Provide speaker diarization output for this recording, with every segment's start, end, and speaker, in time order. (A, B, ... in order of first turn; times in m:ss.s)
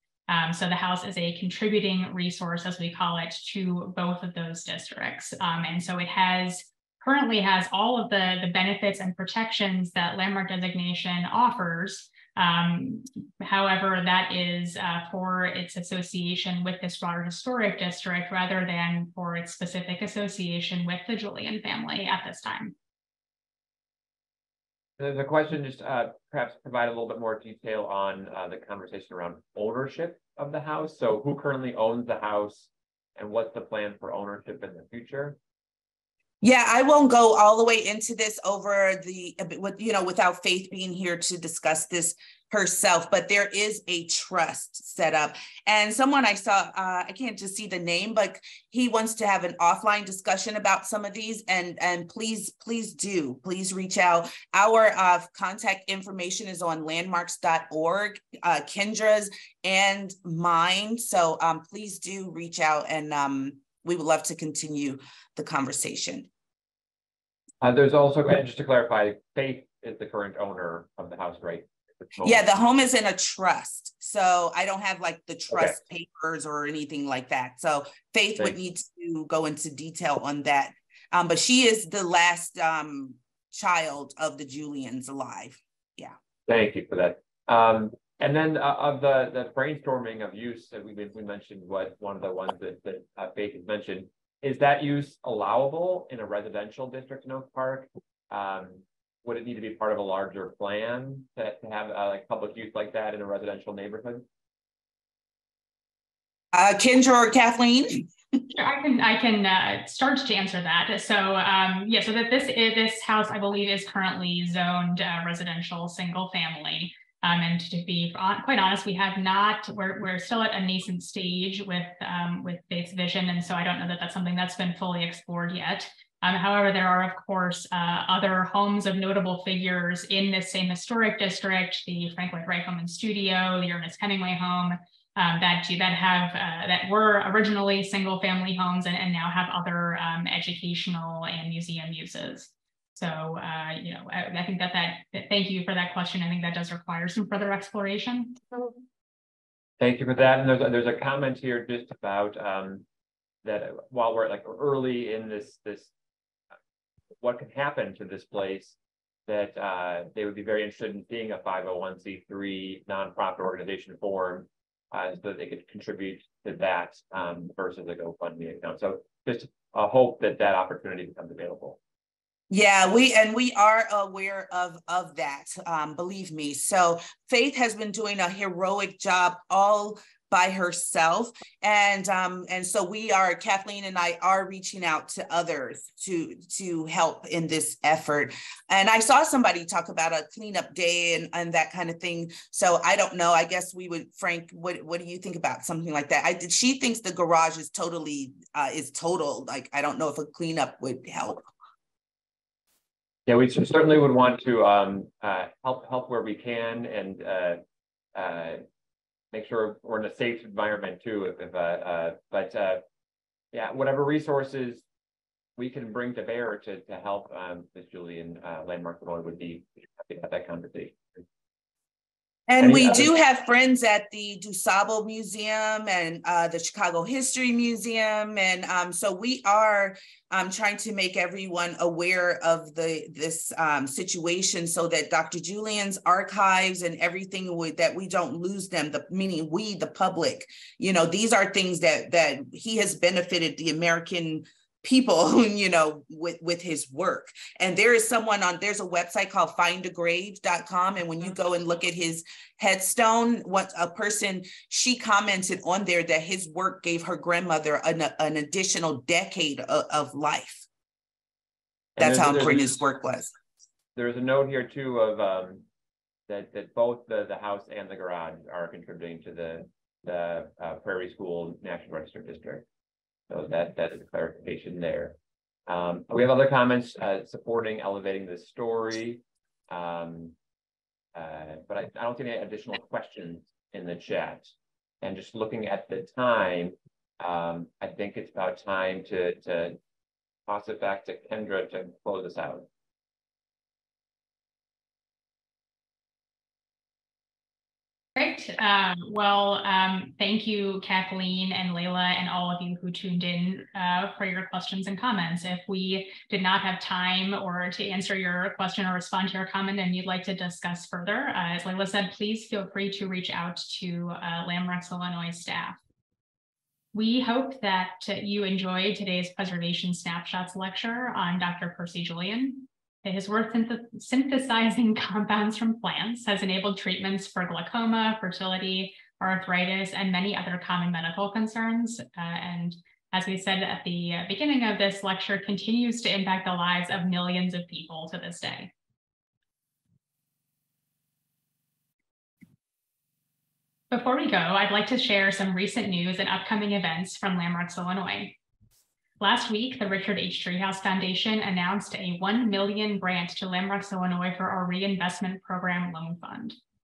0:00.3-0:22.7 A
0:25.0-0:35.4 B
0:36.4-1:06.3 C
1:07.6-1:12.4 B
1:12.2-1:26.1 C
1:15.5-1:15.8 B
1:26.5-1:44.2 B
1:46.5-1:48.1 C
1:48.5-2:28.4 A
2:29.8-2:32.8 B
2:33.4-2:35.9 B
2:37.2-2:38.7 B
2:39.3-2:51.8 B
2:52.5-3:21.5 C
3:23.2-3:27.6 B
3:28.1-3:28.6 B
3:29.3-3:32.8 B
3:33.5-3:34.8 B
3:35.6-3:41.0 B
3:42.5-4:20.6 C
3:42.6-3:43.1 B
4:22.0-4:22.7 B
4:22.0-4:23.3 C
4:24.0-4:25.6 B
4:26.3-4:32.6 B
4:33.3-4:35.2 B
4:35.7-4:40.3 B
4:41.1-4:44.5 B
4:45.0-4:49.8 B
4:50.5-4:52.7 B
4:58.2-5:15.8 A
5:16.9-5:38.7 A
5:43.9-5:48.4 A
5:49.2-5:56.6 A